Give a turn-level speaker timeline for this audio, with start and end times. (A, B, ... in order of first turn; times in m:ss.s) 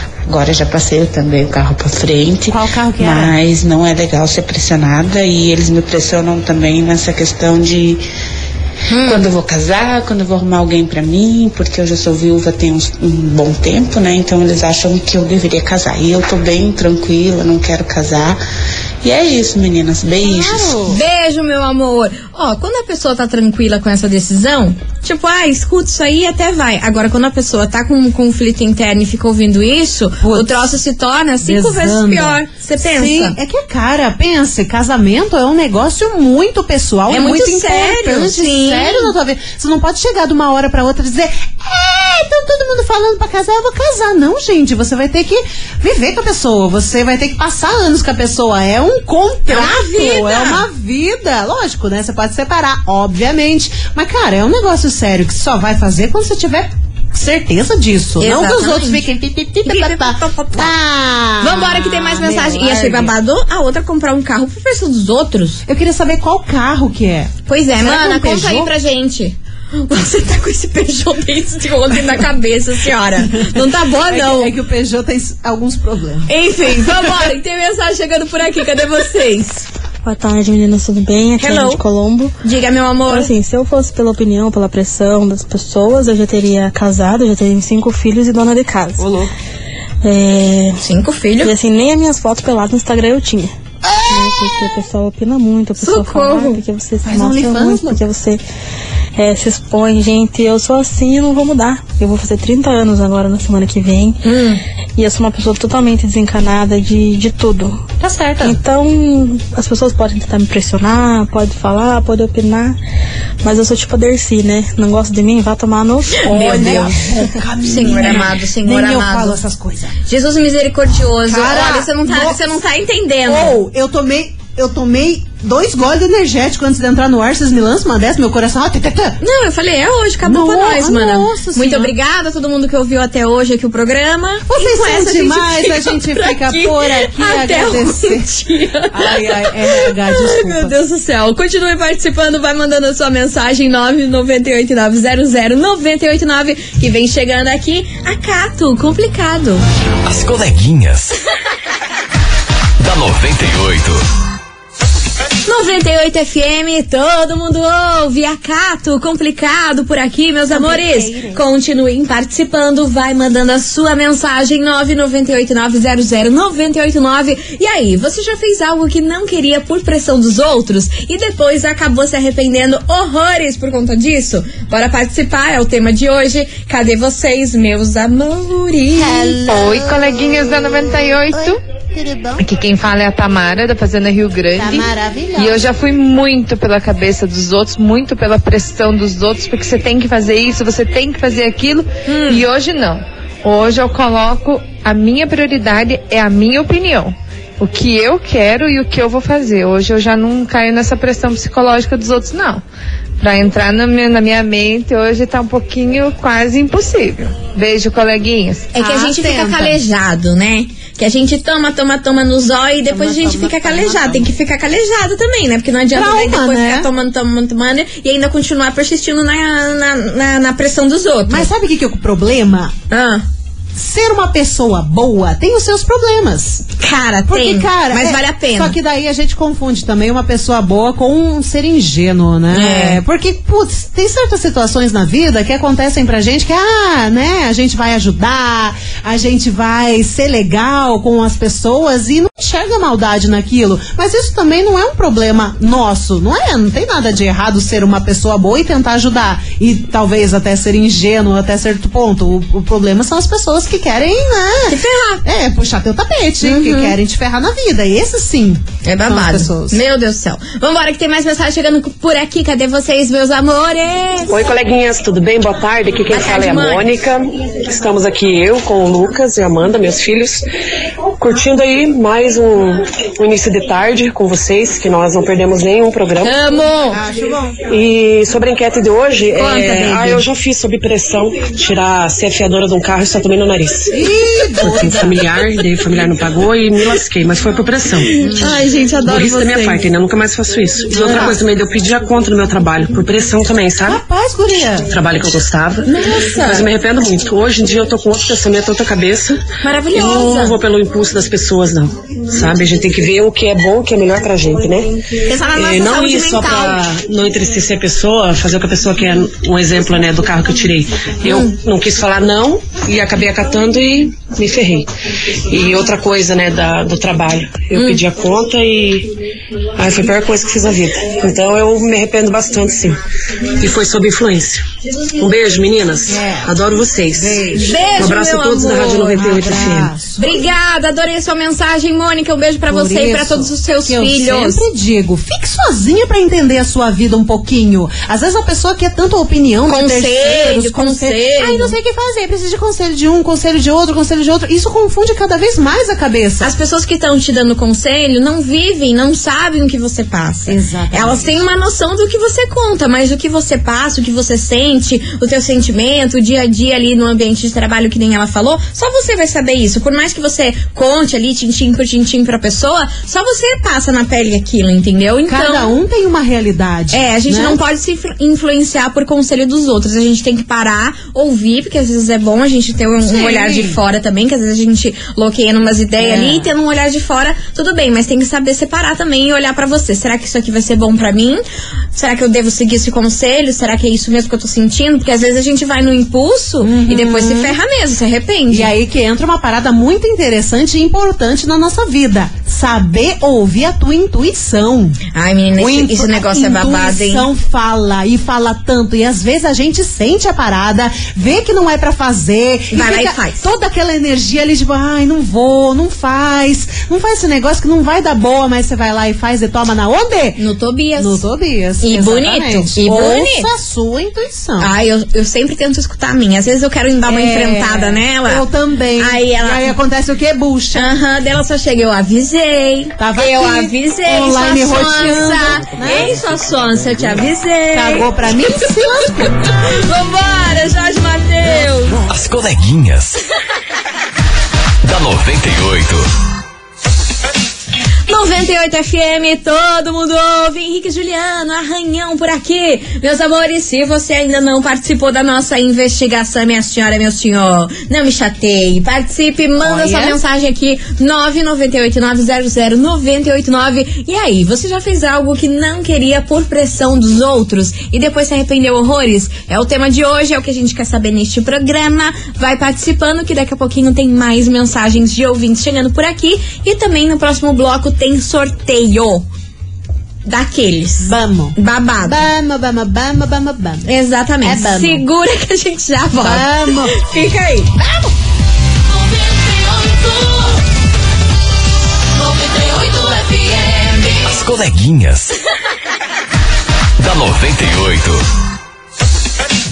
0:00.3-0:08.0 A
0:02.5-0:03.4 B
0:08.9-0:09.2 C
0:09.0-0:18.4 A
0:19.0-0:20.8 A
0:20.2-0:21.0 B
0:20.9-0:33.4 C
0:30.2-0:30.6 B
0:31.4-1:03.1 B
0:37.1-0:39.1 C
0:49.5-0:50.6 C
0:58.2-0:59.1 C
0:59.6-1:00.8 C
1:01.4-1:05.6 C
1:05.7-1:08.7 B
1:07.5-1:14.5 C
1:13.4-1:16.3 B
1:16.3-1:19.7 C
1:20.0-1:22.4 D
1:21.4-1:21.8 C
1:22.4-1:23.3 C
1:23.1-1:29.2 D
1:29.0-1:29.3 B
1:30.0-1:30.8 D
1:30.8-1:31.5 C
1:31.4-1:33.5 D
1:33.9-1:34.5 B
1:34.1-1:38.4 D
1:35.8-1:36.6 C
1:37.0-1:38.0 B
1:39.2-1:44.2 D
1:44.2-1:44.6 C
1:45.0-1:47.8 D
1:48.0-1:48.6 B
1:48.4-1:52.8 D
1:53.4-1:57.4 D
1:56.2-1:56.9 C
1:56.2-2:00.0 B
1:57.6-1:59.4 C
2:00.1-2:03.6 C
2:01.3-2:02.4 B
2:03.3-2:09.2 B
2:09.2-2:29.6 C
2:10.2-2:11.9 B
2:14.5-2:18.3 B
2:18.9-2:20.7 B
2:30.0-2:31.2 E
2:32.8-2:34.0 E
2:35.5-2:59.4 C
2:40.5-2:41.4 B
2:58.9-3:00.3 B
2:59.5-3:01.6 F
3:01.3-3:02.4 B
3:02.4-3:22.6 F
3:04.6-3:05.7 B
3:12.1-3:12.4 C
3:23.2-3:28.7 F
3:28.7-3:41.5 C
3:28.8-3:29.8 B
3:32.9-3:34.3 B
3:35.9-3:36.9 B
3:41.3-3:42.7 B
3:42.9-3:43.2 C
3:43.8-3:46.7 B
3:46.8-3:48.8 C
3:47.3-4:19.8 B
3:52.5-3:53.0 C
4:14.7-4:15.2 C
4:16.4-4:17.0 C
4:18.8-4:24.3 C
4:24.3-4:30.4 G
4:26.1-4:26.9 C
4:31.2-4:36.4 G
4:36.2-4:37.0 C
4:36.9-4:37.6 B
4:37.6-4:44.0 G
4:39.4-4:40.2 B
4:43.9-4:45.2 B
4:44.6-4:48.2 G
4:48.2-4:49.8 C
4:48.2-4:48.6 B
4:49.0-4:54.0 G
4:51.0-4:51.4 B
4:53.8-4:54.9 B
4:54.9-5:14.9 G
4:55.8-4:56.7 C
4:59.6-5:00.6 C
5:05.3-5:06.8 C
5:11.3-5:11.5 C
5:15.5-5:19.1 G
5:17.7-5:18.0 C
5:19.8-5:30.0 G
5:26.1-5:26.5 B
5:27.2-5:27.9 B
5:27.5-5:34.6 C
5:29.2-5:30.4 B
5:32.7-5:46.5 B
5:39.7-5:41.8 C
5:46.4-6:05.8 C
5:50.5-5:51.3 B
6:05.3-6:07.6 B
6:06.9-6:21.4 C
6:13.0-6:13.8 B
6:16.0-6:16.5 B
6:21.9-6:28.7 C
6:26.6-6:27.6 B
6:28.5-6:35.0 B
6:35.1-6:37.3 C
6:35.6-6:50.4 B
6:42.7-6:43.4 C
6:50.4-6:51.2 C
6:51.0-6:54.7 B
6:51.8-6:53.5 C
6:54.6-6:58.5 C
6:57.1-7:00.9 B
6:59.0-6:59.7 C
7:00.8-7:08.7 C
7:03.0-7:06.2 B
7:07.7-7:09.3 B
7:09.2-7:12.0 C
7:12.1-7:13.2 E
7:14.8-7:16.1 E
7:18.1-7:49.2 C
7:29.6-7:30.2 B
7:50.3-7:52.2 C
7:51.0-7:53.9 B
7:53.8-7:57.8 C
7:54.4-7:55.0 B
7:56.2-7:57.0 B
7:57.8-7:58.1 B
8:02.4-8:04.1 C
8:04.2-8:05.4 E
8:07.0-8:08.2 E